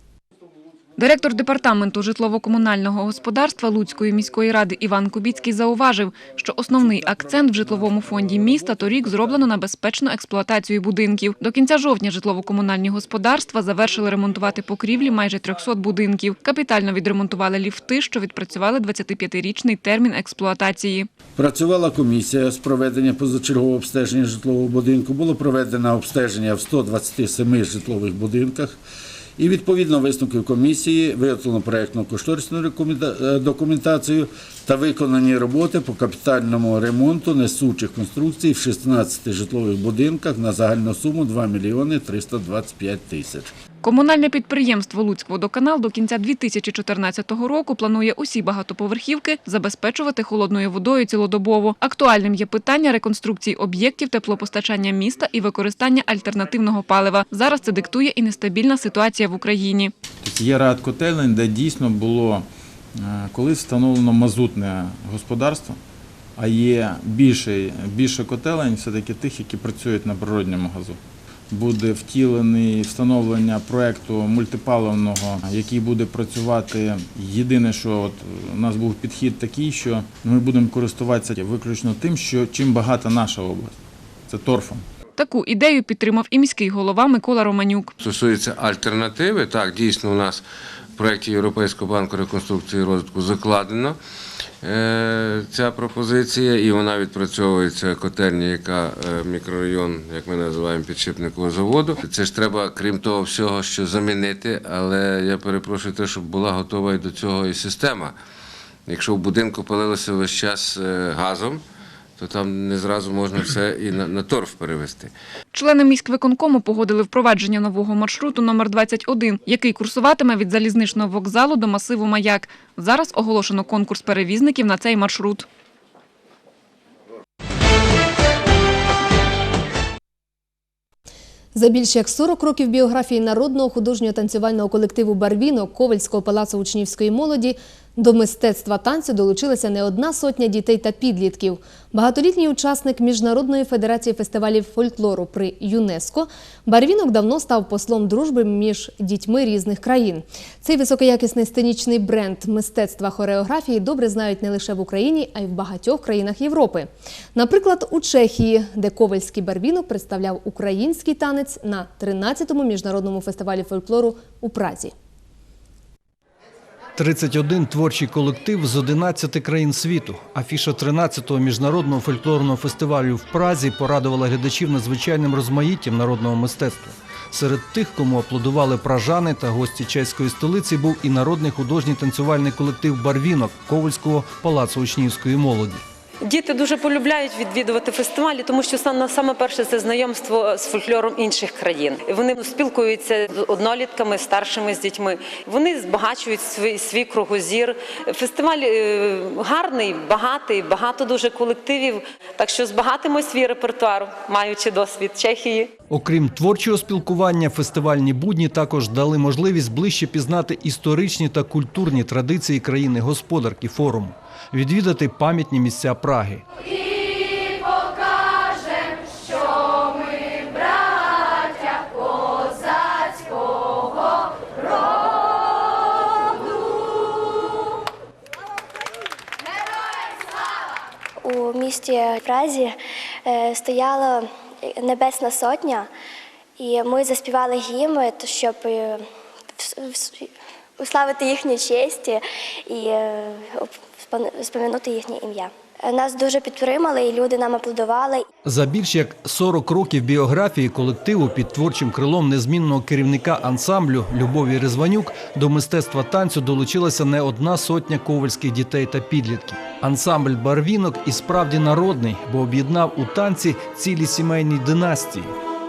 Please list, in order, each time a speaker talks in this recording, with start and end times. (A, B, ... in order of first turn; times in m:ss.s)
0:01.0-0:21.1 A
0:21.4-0:28.8 B
0:29.4-0:43.5 B
0:43.8-0:59.9 A
1:00.2-1:02.5 C
1:03.0-1:05.8 C
1:06.4-1:11.0 C
1:11.5-1:23.7 C
1:24.3-1:24.8 C
1:25.2-1:27.9 A
1:28.0-1:30.4 D
1:31.0-1:34.0 D
1:34.6-1:48.2 D
1:48.9-1:51.6 D
1:52.2-1:55.1 D
1:55.5-2:05.5 A
2:11.6-2:44.9 E
2:47.0-3:05.8 F
3:06.2-3:25.7 G
3:25.9-3:36.4 F
3:51.2-3:55.9 H
3:56.6-3:59.1 H
3:59.6-4:08.3 H
4:08.4-4:25.3 F